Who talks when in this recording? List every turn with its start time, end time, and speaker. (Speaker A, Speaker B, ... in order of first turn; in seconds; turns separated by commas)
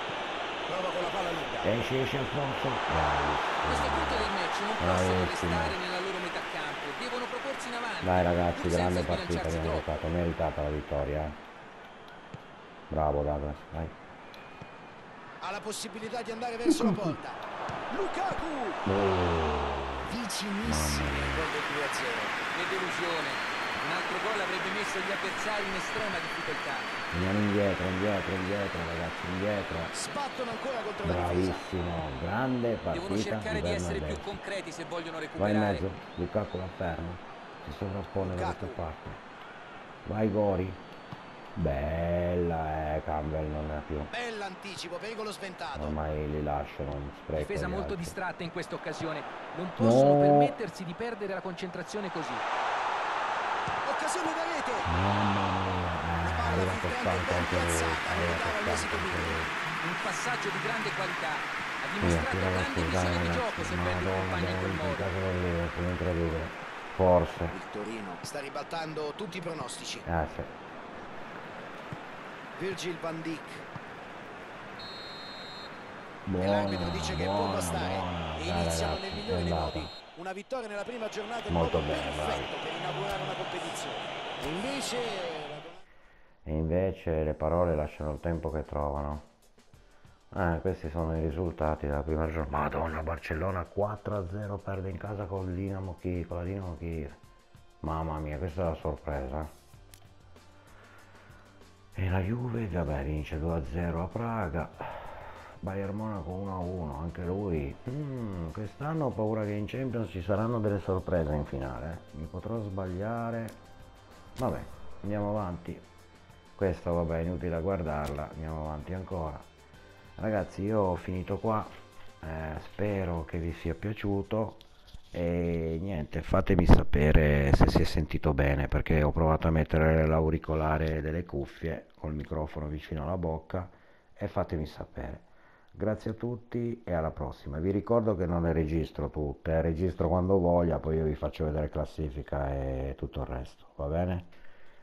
Speaker A: 0.7-1.8, Speaker B: 1.6-5.8, Speaker C: 3.6-9.9, Speaker B: 8.0-11.4, Speaker B: 12.9-14.0, Speaker A: 15.4-18.8, Speaker B: 16.7-17.2, Speaker B: 18.9-21.5, Speaker A: 20.1-22.4, Speaker C: 22.5-27.0, Speaker B: 27.1-29.9, Speaker A: 29.9-31.7, Speaker B: 31.0-34.4, Speaker C: 32.9-35.9, Speaker B: 35.4-39.2, Speaker A: 38.2-38.8, Speaker B: 40.0-40.8, Speaker B: 41.5-44.1, Speaker A: 44.1-46.0, Speaker B: 45.8-48.2, Speaker C: 47.4-52.4, Speaker B: 49.8-50.6, Speaker A: 53.8-54.9, Speaker B: 54.9-59.5, Speaker A: 56.2-59.5, Speaker C: 59.8-65.1, Speaker B: 62.0-67.6, Speaker A: 67.5-70.1, Speaker B: 70.1-70.5, Speaker A: 72.6-73.7, Speaker B: 76.3-79.9, Speaker A: 76.4-85.8, Speaker B: 81.5-82.5, Speaker B: 86.5-89.3, Speaker B: 90.3-97.2, Speaker B: 97.8-99.5, Speaker B: 102.0-113.6, Speaker B: 114.4-115.8, Speaker B: 116.6-119.5, Speaker B: 120.2-124.6, Speaker B: 125.1-144.3